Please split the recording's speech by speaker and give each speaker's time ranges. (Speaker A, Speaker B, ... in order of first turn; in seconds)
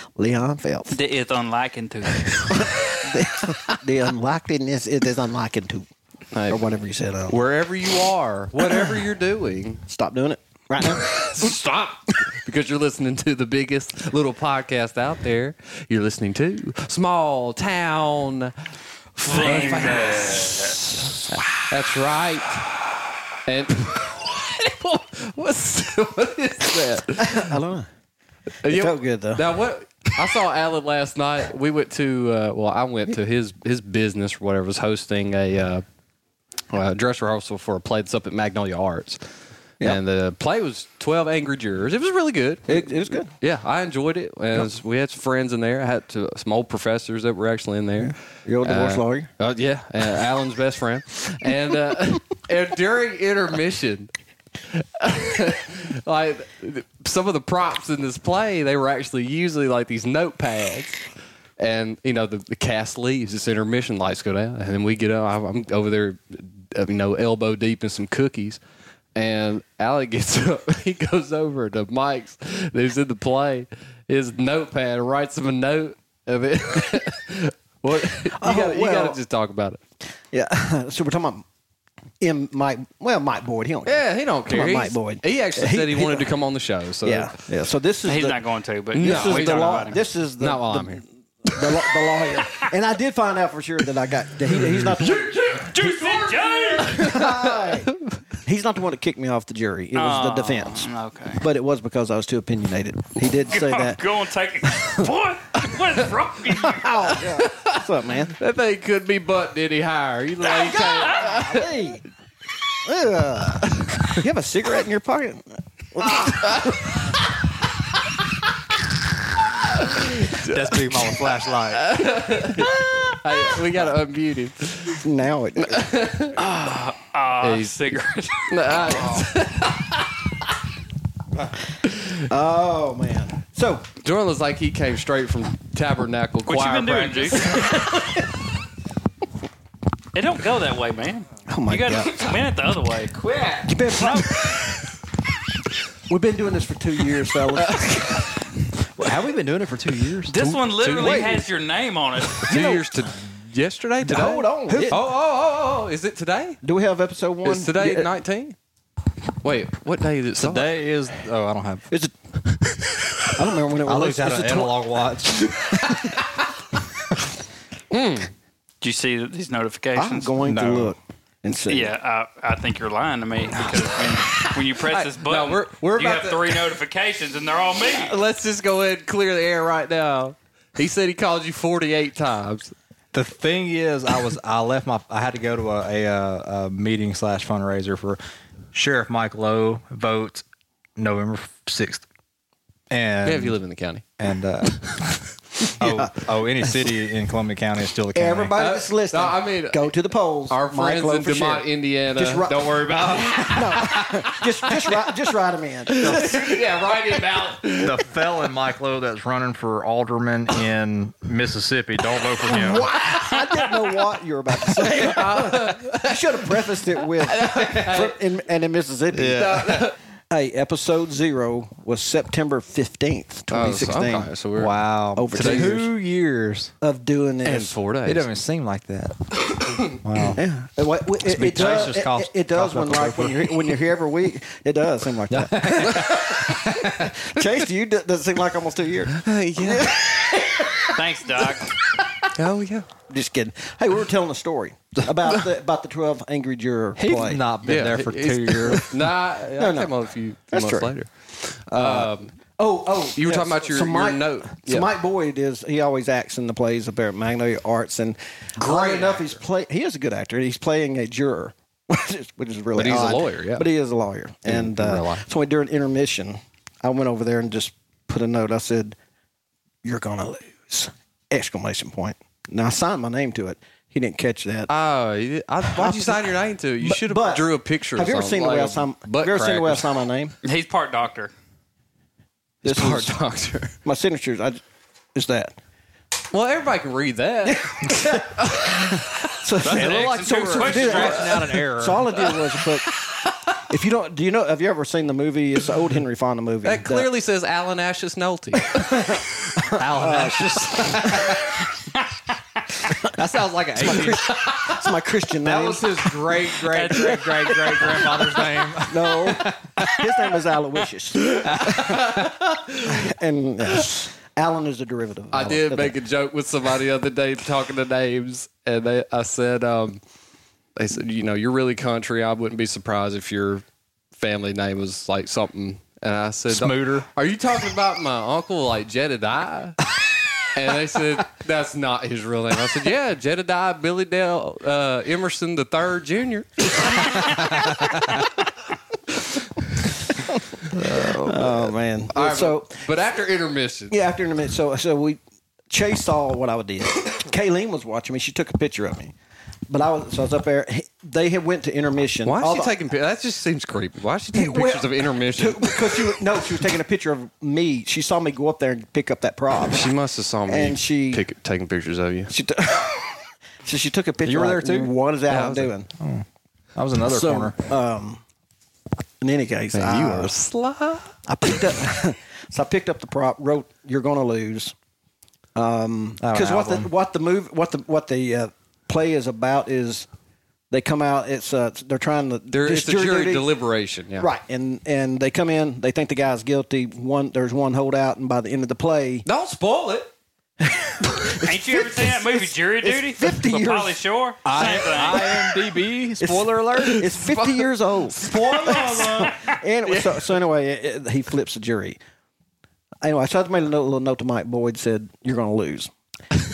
Speaker A: 0.2-1.0, 2.4-7.4, 8.6-8.9, 9.9-11.5, 20.7-21.1, 27.1-27.9, 28.7-29.5, 42.7-43.3, 48.0-49.3, 78.3-79.2, 80.3-81.5, 82.2-86.3, 87.0-88.4, 89.0-97.9, 98.5-104.0, 106.7-108.3, 110.5-112.0, 112.8-116.8, 124.9-126.0, 132.3-133.9, 141.5-142.3, 143.6-144.6, 146.1-148.2, 150.8-151.5, 152.5-152.9, 154.1-155.0, 156.6-158.1, 163.3-164.8, 169.9-171.9, 195.8-196.1, 198.1-206.4, 212.5-224.3, 225.2-225.9, 226.8-227.7, 230.3-240.9, 243.1-247.5, 249.6-249.9, 250.5-250.9, 251.8-269.0, 269.8-274.7, 275.6-280.3, 282.6-283.2, 283.9-284.6, 285.1-285.6, 287.4-288.5, 289.3-292.9, 293.7-297.1, 298.8-299.2, 299.8-301.4, 303.8-305.9, 308.9-312.1, 312.9-316.0, 340.9-342.8, 343.9-349.1, 349.7-352.8, 354.3-359.9, 360.5-361.2, 362.3-365.9, 367.0-368.2, 369.2-370.3, 371.3-374.8, 375.6-380.1, 380.7-383.5, 384.2-389.2, 390.6-394.0, 394.7-395.4, 396.2-402.0, 403.0-405.9
Speaker B: 0.9-2.5, 19.2-20.8, 88.0-90.0, 95.7-97.0, 100.0-101.4, 103.5-106.9, 126.4-128.9, 136.5-137.7, 140.2-143.2, 144.0-144.3, 150.3-152.5, 168.8-170.3, 171.7-178.2, 240.9-241.7, 280.4-281.3, 289.6-291.2, 306.7-307.1, 391.4-395.4
Speaker C: 6.3-6.6, 7.3-9.8, 10.8-18.5, 19.2-22.6, 23.4-27.6, 28.6-35.8, 36.7-39.2, 39.8-54.1, 54.7-61.0, 61.6-68.6, 69.2-79.8, 83.9-87.3, 89.0-91.6, 94.5-98.2, 107.3-107.8, 108.4-111.7, 116.4-116.8, 119.8-121.2, 121.7-125.0, 125.6-126.4, 127.4-127.8, 128.5-130.1, 131.9-132.2, 134.0-138.1, 147.6-148.4, 150.3-151.4, 152.4-156.6, 157.4-158.6, 159.4-160.8, 167.9-168.3, 174.8-176.8, 178.0-182.7, 193.2-194.1, 198.6-200.0, 200.5-204.1, 205.9-208.3, 214.8-218.2, 219.3-219.9, 223.5-225.8, 227.4-228.3, 236.0-236.3, 239.2-239.9, 242.3-242.9, 247.6-252.4, 253.2-254.9, 258.8-259.1, 262.8-263.7, 264.5-265.2, 274.7-279.9, 282.6-283.7, 286.3-289.3, 290.6-291.5, 292.2-292.5, 296.6-299.2, 304.4-304.6, 311.6-313.0, 315.3-320.0, 320.8-329.8, 330.5-337.4, 340.9-344.0, 352.2-356.2, 359.6-362.3, 365.3-365.7, 369.7-371.1, 382.5-384.3, 389.2-390.1, 396.8-400.4
Speaker D: 120.5-121.9, 149.0-150.3, 154.1-155.1, 160.4-161.9, 163.9-165.8, 170.4-170.9, 183.1-188.2, 188.7-190.4, 191.0-192.0, 192.9-193.6, 194.2-195.0, 195.8-198.6, 202.6-203.8, 206.0-206.4, 207.8-212.9, 219.1-219.6, 224.6-226.7, 228.1-229.2, 230.0-230.4, 231.3-233.7, 235.3-236.9, 247.0-248.9, 258.6-259.2, 289.6-292.0, 299.8-301.4, 303.1-304.5, 305.4-310.0, 311.3-312.3, 326.5-327.1, 364.2-364.9, 366.0-366.2, 366.8-367.6, 376.2-376.9, 394.4-397.0